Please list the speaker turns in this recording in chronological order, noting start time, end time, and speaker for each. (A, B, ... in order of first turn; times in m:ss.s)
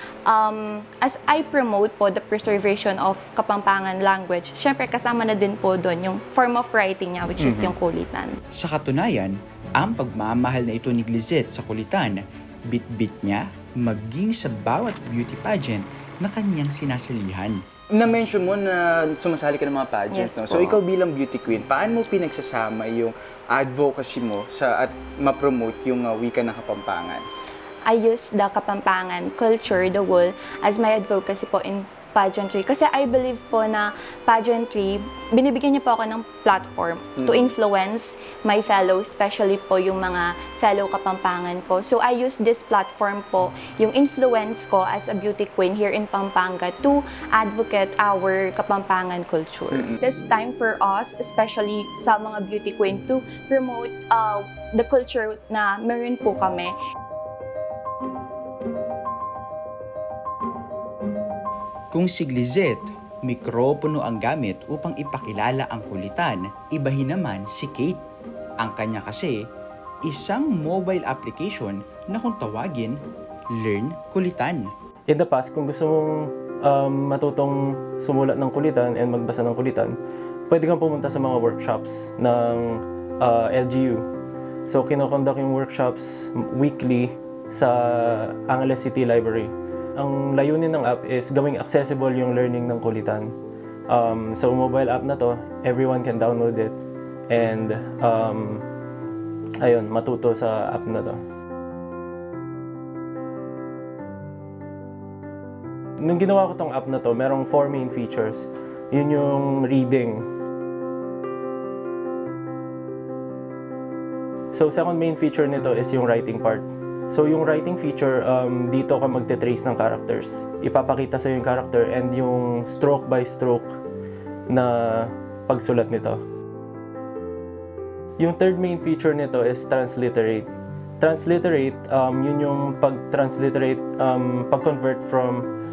0:00.3-0:08.4 A
0:07.4-0:07.7 B
0:08.5-0:17.6 C
0:17.9-0:27.2 B
0:20.1-0:20.8 A
0:27.9-0:56.8 A
0:37.2-0:37.5 B
0:49.7-0:50.0 B
1:01.9-1:08.0 C
1:08.6-1:09.4 C
1:10.0-1:13.0 C
1:13.5-1:14.7 C
1:15.1-1:20.0 D
1:20.5-1:24.0 D
1:24.7-1:33.3 D
1:33.9-1:36.8 D
1:37.3-1:38.6 D
1:39.6-1:41.2 D
1:46.0-1:50.3 D
1:54.5-2:03.8 D
2:04.5-2:06.2 D
2:08.2-2:10.5 D
2:11.0-2:15.5 D